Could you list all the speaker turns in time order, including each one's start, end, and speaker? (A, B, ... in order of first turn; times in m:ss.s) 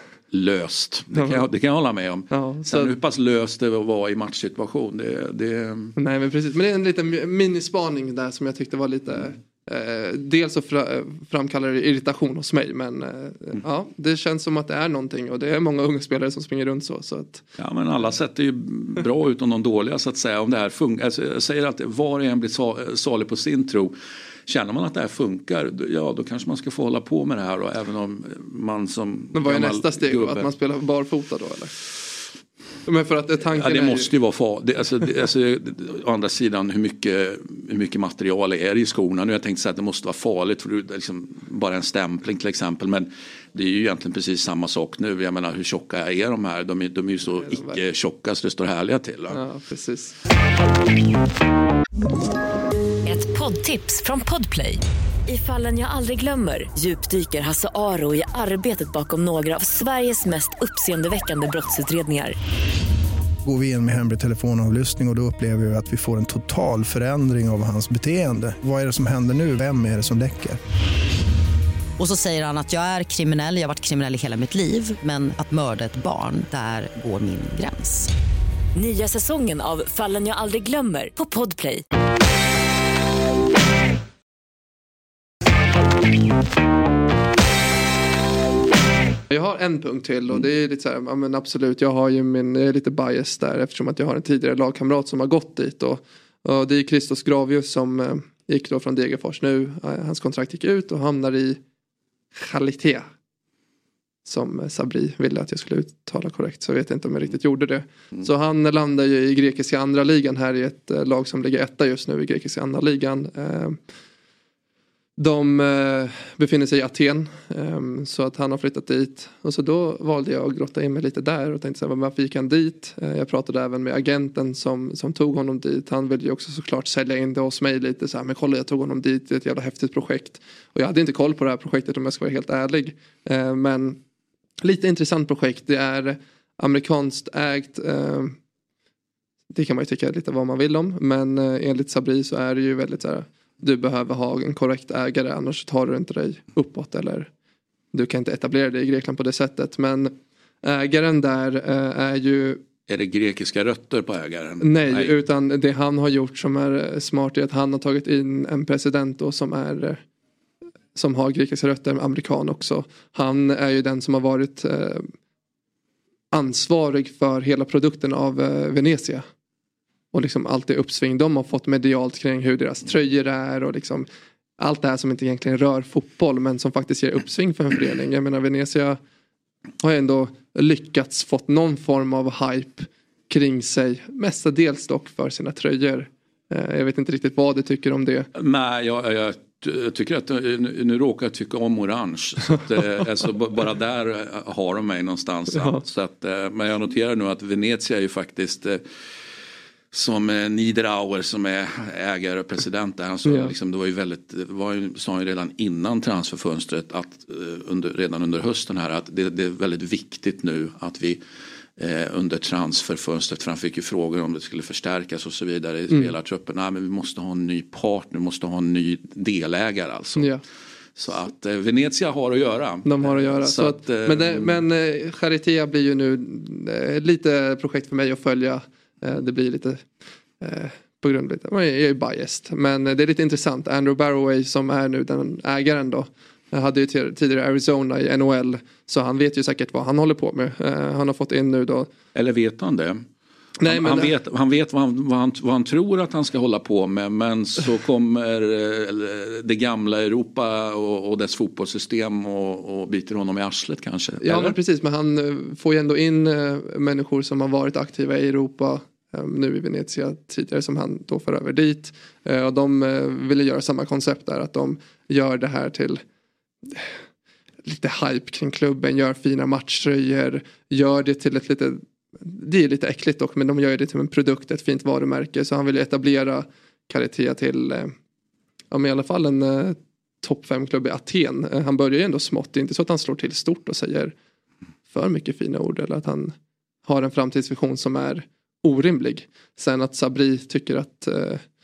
0:00.3-0:06.0 A
0:01.1-0:01.4 B
0:02.3-0:02.9 B
0:06.0-0:17.4 B
0:17.6-0:24.0 A
0:24.5-0:30.5 A
0:29.3-0:31.7 B
0:32.8-0:34.1 B
0:33.5-0:49.4 A
0:47.3-0:47.8 B
0:49.3-0:50.2 B
0:53.0-1:02.3 C
1:03.4-1:10.6 D
1:12.0-1:18.1 E
1:18.7-1:21.8 C
1:29.3-1:41.6 B
1:42.3-1:43.1 B
1:44.2-1:53.8 B
1:55.2-2:14.0 B
2:14.6-2:18.3 B
2:19.5-2:27.3 B
2:27.9-2:32.6 B
2:32.9-2:35.1 A
2:34.6-2:40.0 B
2:40.9-2:45.1 B
2:46.3-2:49.2 B
2:50.1-2:54.0 B
2:54.6-2:59.0 B
2:59.8-3:08.3 B
3:08.3-3:18.8 A
3:15.5-3:15.8 B
3:19.9-3:31.2 A
3:23.2-3:23.5 B
3:31.8-3:40.3 A
3:40.2-3:40.4 B
3:41.0-3:44.6 A
3:42.8-3:49.8 B
3:50.4-4:01.9 B
4:02.1-4:03.0 A
4:03.6-4:04.1 B
4:03.6-4:14.6 A
4:14.2-4:26.0 B
4:27.6-4:37.9 B
4:38.7-4:44.1 B
4:44.9-4:46.3 B
4:46.8-4:51.4 B